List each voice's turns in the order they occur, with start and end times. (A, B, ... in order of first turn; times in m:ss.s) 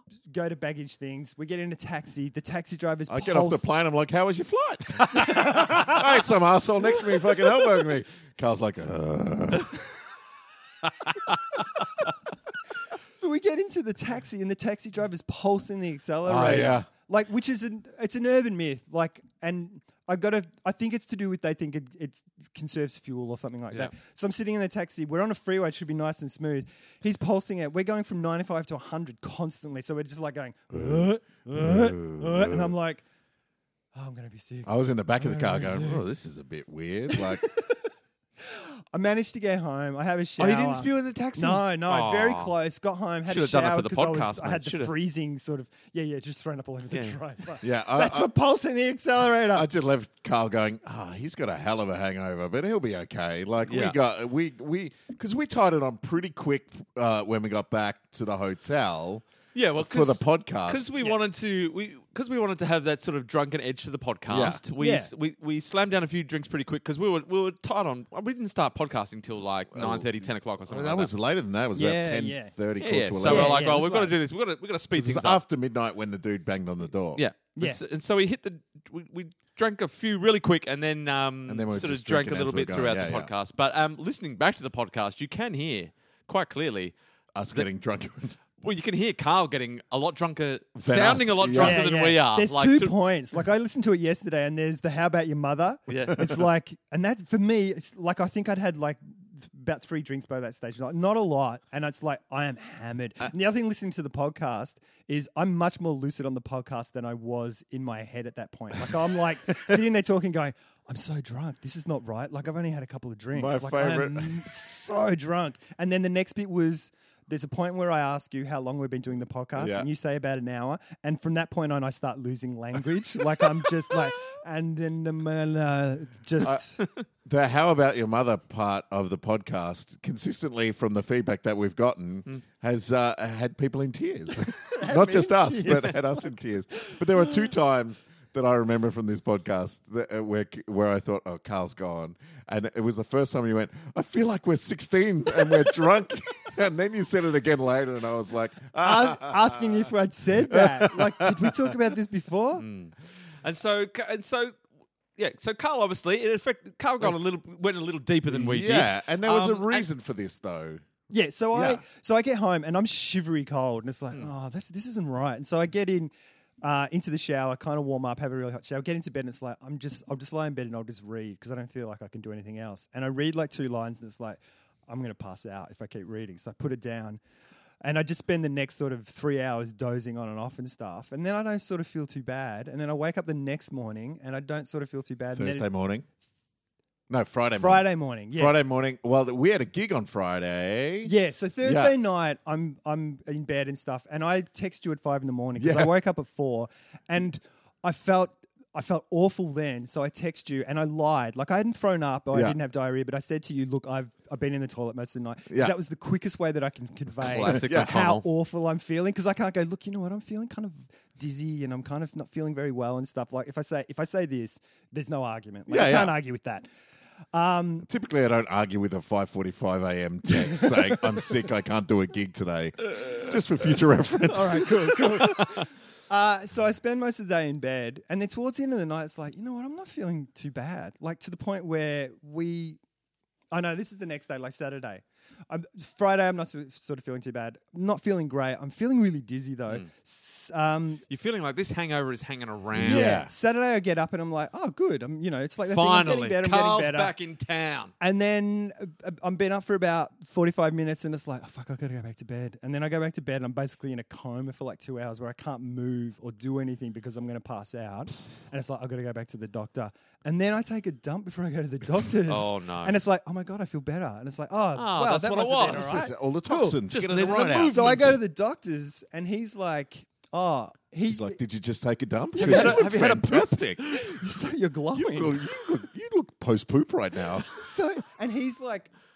0:00.3-0:03.7 A
0:03.1-0:09.9 B
0:05.1-0:05.9 C
0:05.1-0:06.0 A
0:13.2-0:33.0 A
0:16.2-0:16.9 B
0:30.7-0:32.7 B
0:33.9-0:36.0 A
0:34.6-0:37.5 B
0:37.1-0:37.8 A
0:38.4-0:49.7 A
0:40.4-0:42.5 C
0:43.3-0:44.9 C
0:46.9-0:47.2 C
0:47.6-0:48.3 B
0:49.5-0:59.2 B
0:53.7-0:54.0 C
0:59.5-1:11.1 C
0:59.8-1:00.9 B
1:04.3-1:04.6 B
1:04.8-1:05.1 A
1:09.7-1:10.1 B
1:10.7-1:13.6 B
1:11.7-1:12.5 A
1:12.8-1:15.4 C
1:13.2-1:14.1 A
1:14.9-1:17.2 B
1:17.2-1:27.0 C
1:21.5-1:23.3 B
1:27.3-1:28.4 B
1:28.6-1:32.9 C
1:30.8-1:31.8 B
1:31.5-2:06.8 A
1:35.9-1:36.3 C
1:53.3-1:54.5 B
1:59.6-1:59.9 B
2:07.2-2:29.8 B
2:14.6-2:17.5 A
2:28.8-2:32.6 A
2:30.5-2:31.7 B
2:32.6-2:34.6 C
2:35.2-2:39.9 C
2:38.3-2:40.8 B
2:41.1-2:46.1 A
2:41.5-2:41.8 B
2:46.6-2:57.2 A
2:57.8-3:05.7 A
3:05.3-3:06.0 B
3:07.1-3:11.1 B
3:07.6-3:08.5 A
3:11.0-3:36.6 A
3:11.6-3:11.9 B
3:15.6-3:15.9 B
3:25.5-3:25.7 B
3:27.2-3:28.2 C
3:27.4-3:28.0 B
3:35.7-3:36.2 B
3:37.3-3:37.9 A
3:37.8-3:45.4 B
3:40.4-3:41.0 A
3:44.3-3:52.8 A
3:53.5-4:01.0 A
4:01.1-4:03.2 C
4:02.7-4:03.3 B
4:02.8-4:07.1 A
4:05.7-4:07.9 C
4:08.0-4:26.8 A
4:22.3-4:23.0 C
4:24.7-4:26.0 C
4:25.7-4:28.1 B
4:26.9-4:28.2 C
4:27.6-4:31.4 A
4:31.1-4:33.8 B
4:32.3-4:33.0 A
4:32.4-4:34.0 C
4:33.8-4:35.4 A
4:34.9-4:37.5 B
4:37.5-4:38.9 A